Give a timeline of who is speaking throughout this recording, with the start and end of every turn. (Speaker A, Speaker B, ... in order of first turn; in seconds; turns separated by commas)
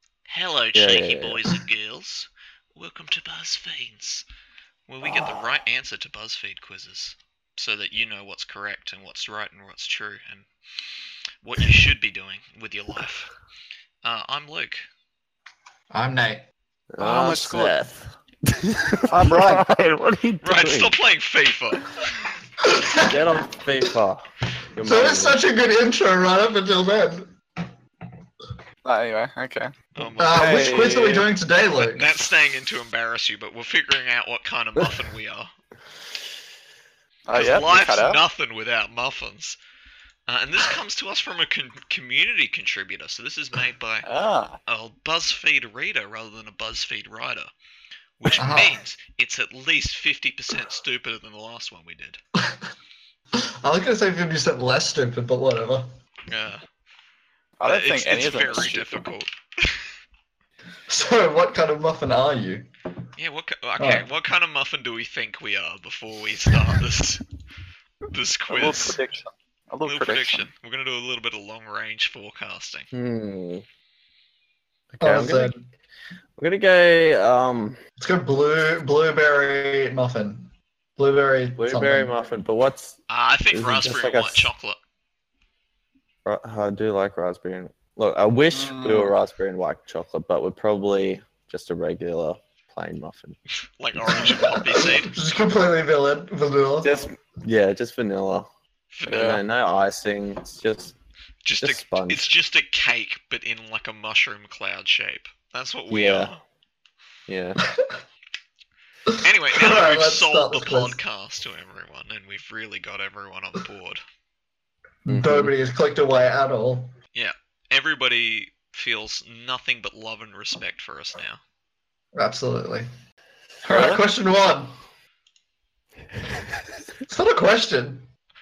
Speaker A: 0.3-4.2, Speaker B: 0.7-1.4, Speaker A: 4.9-10.5, Speaker A: 11.4-13.3, Speaker A: 14.0-14.8, Speaker C: 15.9-16.4, Speaker B: 16.9-20.9, Speaker D: 17.0-17.8, Speaker D: 19.1-19.6, Speaker A: 20.4-21.9, Speaker C: 22.6-23.2, Speaker B: 23.1-25.4, Speaker C: 24.8-27.3, Speaker D: 28.8-31.3, Speaker A: 29.9-30.6, Speaker C: 30.2-32.1, Speaker A: 31.8-35.5, Speaker D: 37.2-38.2, Speaker A: 37.3-39.6, Speaker A: 40.3-44.1, Speaker D: 44.0-44.6, Speaker A: 44.6-47.5, Speaker A: 48.2-52.2, Speaker C: 48.3-48.8, Speaker C: 53.6-55.9, Speaker A: 56.3-56.6, Speaker D: 57.6-59.0, Speaker A: 57.6-59.9, Speaker C: 60.9-62.7, Speaker A: 63.2-67.2, Speaker C: 63.8-64.1, Speaker A: 68.1-69.0, Speaker D: 68.5-70.5, Speaker A: 69.8-72.9, Speaker B: 72.9-73.6, Speaker B: 75.0-75.5, Speaker C: 75.0-75.6, Speaker B: 76.4-77.8, Speaker C: 78.0-82.1, Speaker B: 81.5-83.0, Speaker A: 83.1-84.8, Speaker B: 83.5-84.5, Speaker B: 86.2-93.4, Speaker D: 88.5-89.1, Speaker A: 93.8-95.1, Speaker C: 94.1-97.1, Speaker B: 96.8-98.5, Speaker A: 98.9-99.3, Speaker D: 99.0-99.4, Speaker B: 99.1-100.9, Speaker A: 101.4-106.4, Speaker B: 101.6-102.3, Speaker B: 105.9-106.3, Speaker B: 107.3-107.6, Speaker C: 107.6-107.9, Speaker C: 109.1-111.0, Speaker A: 109.2-114.0, Speaker C: 115.0-116.9, Speaker B: 115.1-115.5, Speaker A: 117.1-121.4, Speaker C: 122.1-122.9, Speaker C: 123.6-124.7, Speaker B: 123.7-124.0, Speaker C: 127.1-128.1